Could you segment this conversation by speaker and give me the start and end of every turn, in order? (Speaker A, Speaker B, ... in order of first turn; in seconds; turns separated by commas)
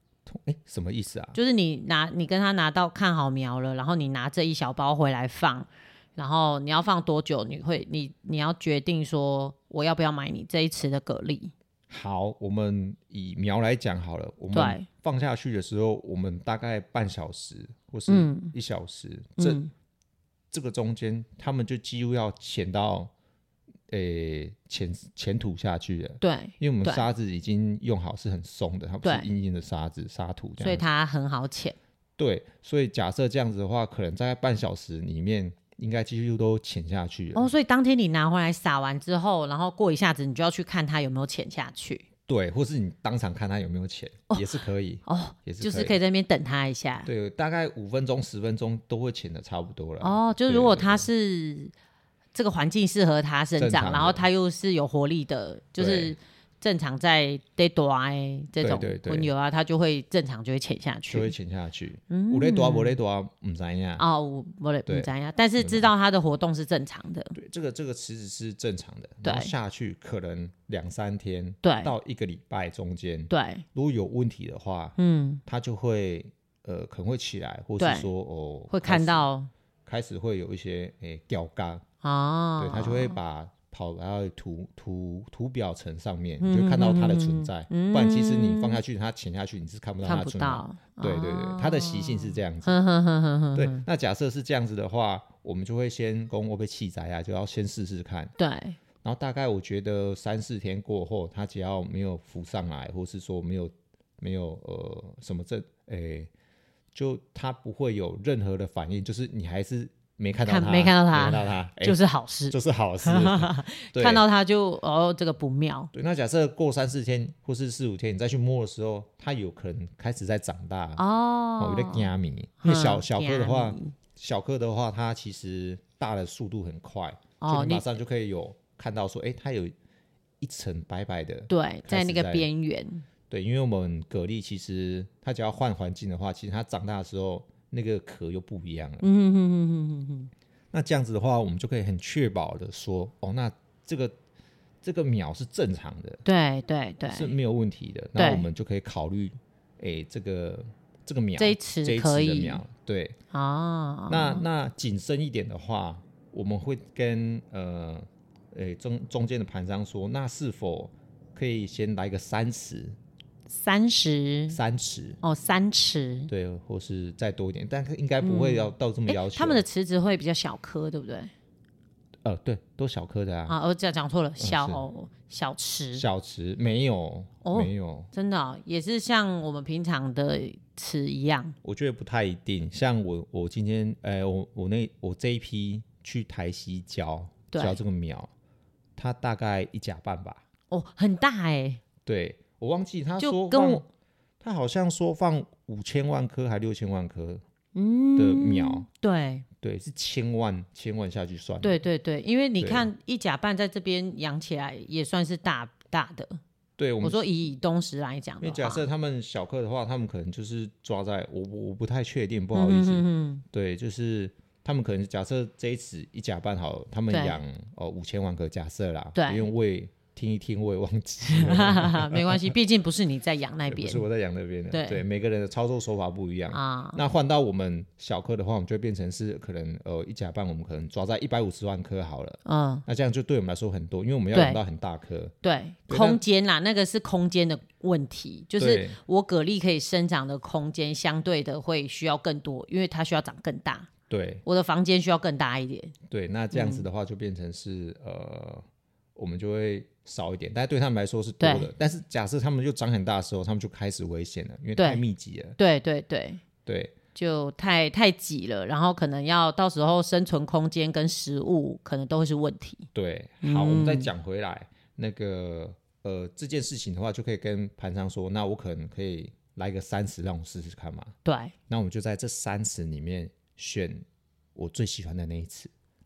Speaker A: 0.2-1.4, Speaker B: 1.3-11.5, Speaker A: 11.9-19.6, Speaker B: 14.5-14.8, Speaker B: 18.1-18.5, Speaker B: 19.4-19.7, Speaker A: 20.5-23.1, Speaker A: 23.9-30.9, Speaker B: 26.2-27.1, Speaker B: 30.6-31.8, Speaker A: 32.2-37.5, Speaker B: 37.3-42.0, Speaker A: 42.3-46.0, Speaker B: 45.0-47.1, Speaker A: 47.0-51.1, Speaker B: 50.0-51.7, Speaker B: 52.3-61.3, Speaker A: 53.6-54.2, Speaker A: 55.8-56.1, Speaker A: 58.6-59.3, Speaker A: 61.1-64.0, Speaker B: 62.1-63.0, Speaker B: 64.0-67.3, Speaker A: 64.9-65.9, Speaker A: 67.3-79.3, Speaker B: 69.2-69.5, Speaker B: 71.6-71.9, Speaker B: 73.3-73.6, Speaker B: 75.0-75.4, Speaker B: 77.8-78.1, Speaker B: 78.7-79.5, Speaker A: 79.8-81.8, Speaker B: 82.0-83.2, Speaker A: 82.6-92.8, Speaker B: 86.4-88.8, Speaker B: 90.0-93.8, Speaker A: 93.5-98.3, Speaker B: 98.4-98.8, Speaker A: 99.0-106.3, Speaker A: 106.9-114.2, Speaker B: 110.5-115.9, Speaker A: 115.9-121.0, Speaker B: 121.0-122.1, Speaker A: 121.6-129.7, Speaker B: 122.6-123.9, Speaker B: 127.4-127.9, Speaker A: 130.4-132.5, Speaker B: 131.5-133.1, Speaker A: 133.3-139.1, Speaker B: 139.0-140.3, Speaker A: 140.7-144.2, Speaker A: 144.8-146.2, Speaker B: 146.2-147.3, Speaker A: 147.0-153.2, Speaker B: 148.2-148.5, Speaker B: 151.4-152.6, Speaker B: 153.3-154.4, Speaker A: 154.1-163.0, Speaker B: 163.5-164.6, Speaker A: 164.5-165.2, Speaker B: 165.2-166.3, Speaker A: 166.3-169.6, Speaker B: 168.2-171.3, Speaker A: 172.2-173.6, Speaker B: 173.5-176.0, Speaker A: 174.4-174.8, Speaker A: 175.9-178.1, Speaker B: 177.4-181.6, Speaker A: 181.6-188.3, Speaker B: 187.5-187.8, Speaker A: 189.0-190.4, Speaker B: 190.7-191.8, Speaker A: 192.0-193.9, Speaker B: 193.2-193.8, Speaker A: 194.4-197.4, Speaker B: 197.7-199.5, Speaker A: 198.2-198.8, Speaker A: 199.6-201.8, Speaker B: 201.6-206.4, Speaker A: 202.6-202.9, Speaker A: 206.8-207.2, Speaker B: 207.0-208.8, Speaker A: 208.4-222.5, Speaker B: 212.5-213.4, Speaker B: 217.1-217.4, Speaker B: 219.2-219.5, Speaker B: 221.3-224.0, Speaker A: 223.7-235.3, Speaker B: 224.7-225.0, Speaker B: 226.5-227.0, Speaker B: 232.4-232.8, Speaker B: 234.3-234.6, Speaker B: 235.4-243.9, Speaker A: 235.9-236.2, Speaker A: 238.6-239.0, Speaker A: 244.1-244.4, Speaker B: 244.4-245.9, Speaker A: 246.1-255.6, Speaker B: 246.5-246.9, Speaker B: 251.4-251.7, Speaker B: 254.8-255.0, Speaker B: 255.6-256.4, Speaker A: 256.6-256.9, Speaker B: 257.1-262.9, Speaker A: 262.9-271.1, Speaker B: 263.4-264.1, Speaker B: 271.2-271.5, Speaker A: 271.7-275.7